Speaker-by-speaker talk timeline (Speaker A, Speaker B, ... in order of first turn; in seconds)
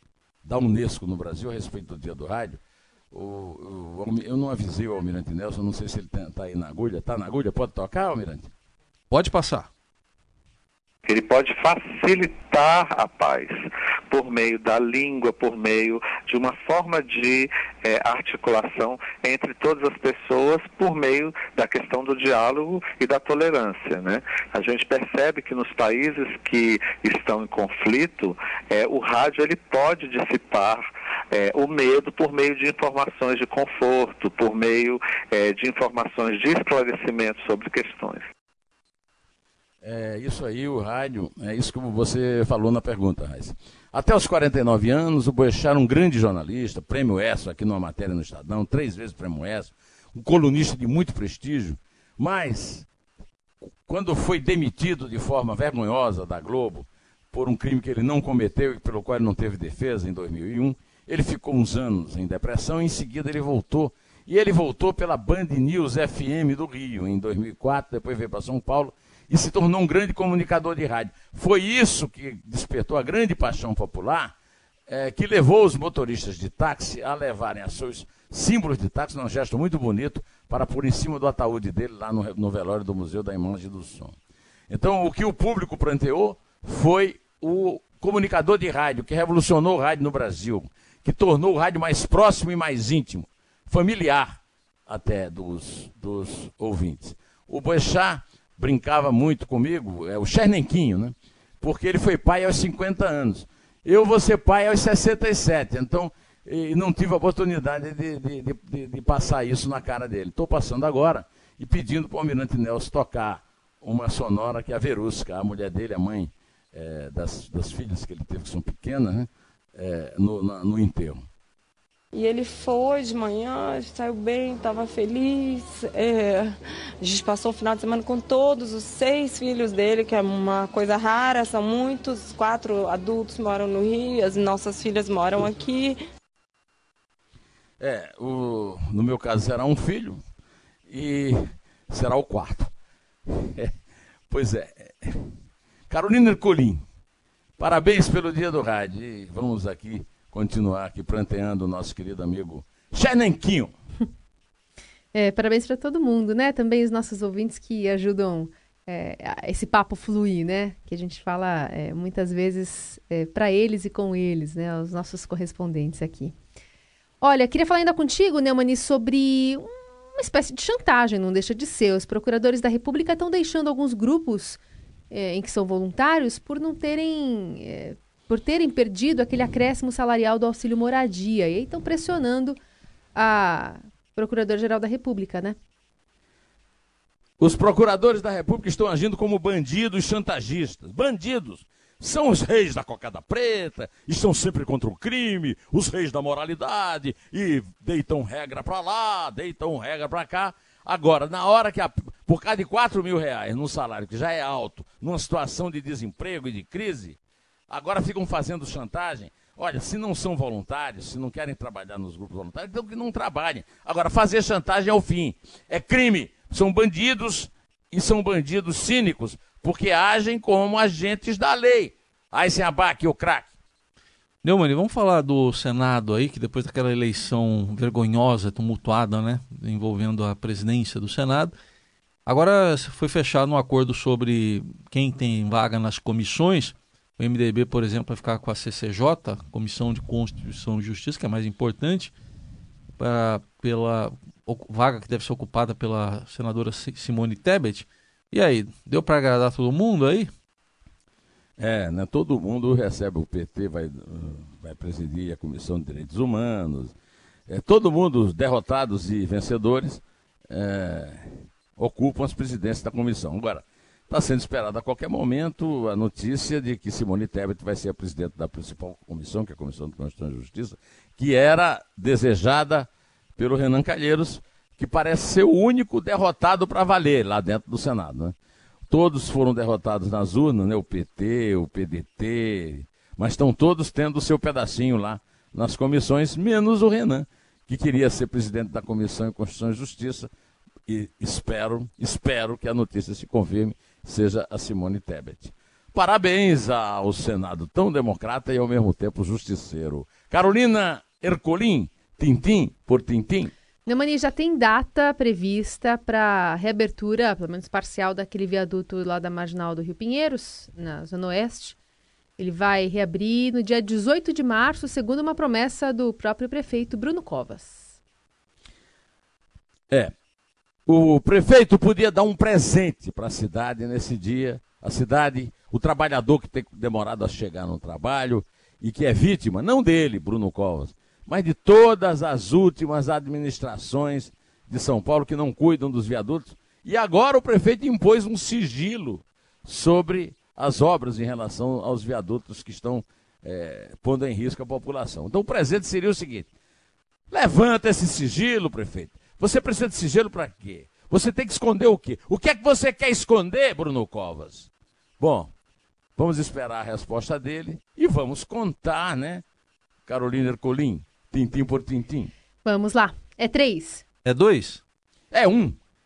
Speaker A: 0.5-2.6, 3.1-8.5, 39.8-52.9, 53.9-74.3, 74.9-84.2, 84.7-121.2, 137.8-140.2, 140.9-142.7, 143.3-143.7, 144.3-145.3, 145.9-146.8, 147.6-153.7, 187.4-207.2, 207.7-223.5, 251.6-256.9, 257.5-278.4, 278.9-290.3, 290.9-303.5, 320.9-346.5, 347.3-355.5, 356.2-359.4, 360.1-362.3, 365.3-365.8
Speaker B: 9.1-9.7, 224.4-231.5, 232.3-242.1, 243.0-250.3, 364.2-364.8
Speaker C: 11.1-38.2
Speaker D: 122.1-136.0
Speaker E: 155.1-166.3, 167.2-182.6, 183.2-185.6, 303.9-311.8, 312.4-318.0, 362.6-364.1